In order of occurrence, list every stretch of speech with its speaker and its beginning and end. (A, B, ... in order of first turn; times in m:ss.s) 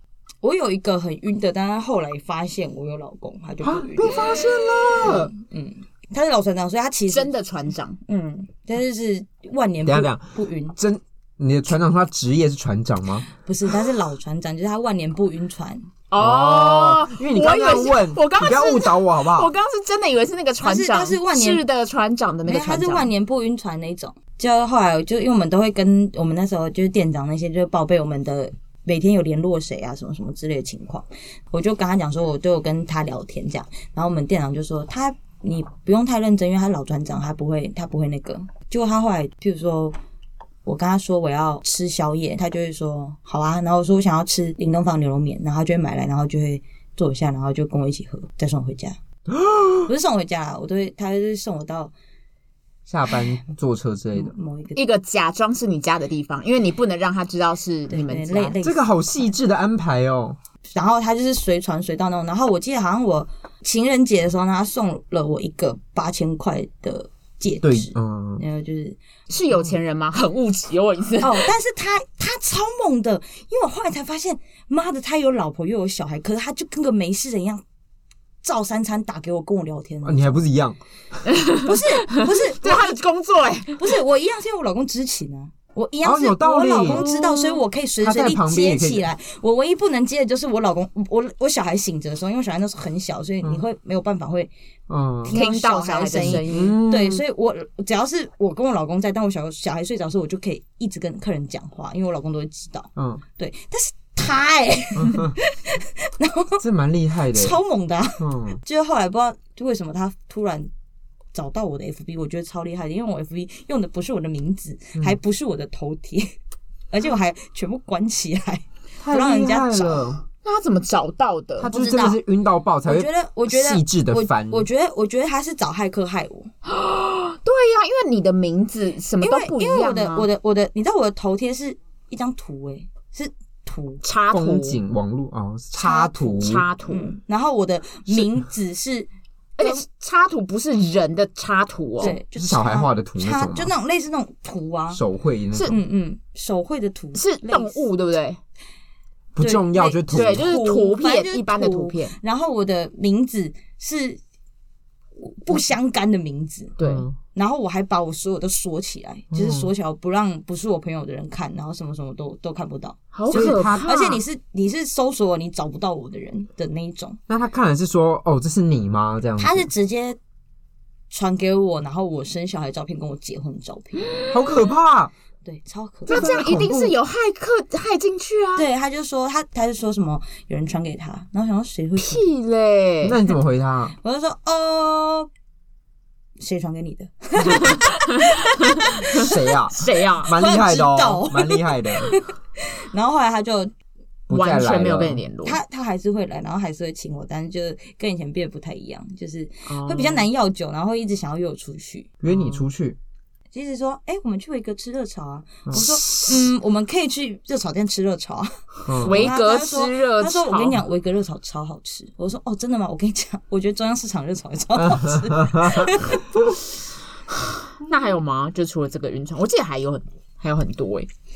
0:00.4-0:04.4 A
0:03.6-0:05.3 B
0:05.0-0:07.3 A
0:07.1-0:08.0 C
0:08.0-0:10.8 A
0:09.8-0:13.3 B
0:13.4-0:15.9 A
0:16.1-0:23.1 C
0:16.2-0:19.5 B
0:20.6-0:21.6 A
0:22.5-0:40.0 A
0:40.6-0:49.0 A
0:49.3-0:49.9 B
0:49.9-0:51.9 A
0:52.9-0:54.3 B
0:54.2-0:54.8 A
0:54.8-0:58.6 C
0:57.9-0:59.3 A
0:58.6-1:00.4 B
1:00.7-1:09.0 A
1:07.6-1:08.4 B
1:09.3-1:11.5 C
1:11.2-1:17.6 A
1:18.4-1:20.4 A
1:20.0-1:20.8 B
1:21.3-1:24.0 C
1:21.6-1:23.0 A
1:23.8-1:34.5 A
1:26.0-1:27.1 B
1:26.8-1:27.6 C
1:28.0-1:29.1 B
1:34.9-1:35.4 B
1:35.2-1:46.6 A
1:35.3-1:36.8 C
1:36.1-1:37.2 B
1:43.0-1:43.2 B
1:45.0-1:45.4 B
1:46.6-1:47.6 B
1:47.3-1:50.7 A
1:48.2-1:48.6 B
1:51.3-1:56.3 A
1:56.9-2:00.1 A
1:59.0-2:00.2 B
2:00.4-2:01.7 C
2:01.6-2:04.7 B
2:01.6-2:02.2 A
2:02.8-2:06.5 A
2:06.6-2:10.3 C
2:09.2-2:14.0 A
2:14.0-2:14.8 C
2:14.3-2:16.6 B
2:15.8-2:17.1 C
2:16.9-2:19.8 A
2:19.6-2:22.2 C
2:22.0-2:25.0 A
2:22.3-2:23.7 B
2:24.9-2:25.8 B
2:25.7-2:27.9 A
2:27.2-2:28.4 C
2:29.4-2:30.6 B
2:29.4-2:34.2 A
2:30.1-2:32.2 C
2:35.2-2:36.8 A
2:36.8-2:37.1 C
2:36.8-2:37.2 B
2:37.3-2:47.2 A
2:39.3-2:39.7 B
2:43.1-2:44.2 C
2:43.3-2:43.9 B
2:47.3-2:49.7 B
2:49.4-2:50.2 A
2:51.1-2:54.2 A
2:54.1-2:54.6 C
2:54.3-2:55.1 B
2:55.4-2:56.5 A
2:56.1-2:57.0 B
2:56.1-2:58.7 C
2:58.6-3:02.3 A
3:02.0-3:03.2 C
3:03.0-3:03.9 B
3:04.0-3:05.3 A
3:06.4-3:07.9 A
3:07.4-3:10.3 C
3:09.1-3:12.1 B
3:10.3-3:12.3 A
3:12.9-3:13.7 A
3:14.3-3:15.2 B
3:14.3-3:15.6 C
3:15.4-3:22.1 A
3:19.7-3:20.3 C
3:22.2-3:23.0 B
3:23.5-3:36.2 A
3:25.7-3:26.0 B
3:28.9-3:29.3 B
3:29.0-3:30.8 C
3:34.8-3:36.5 B
3:37.7-3:41.1 C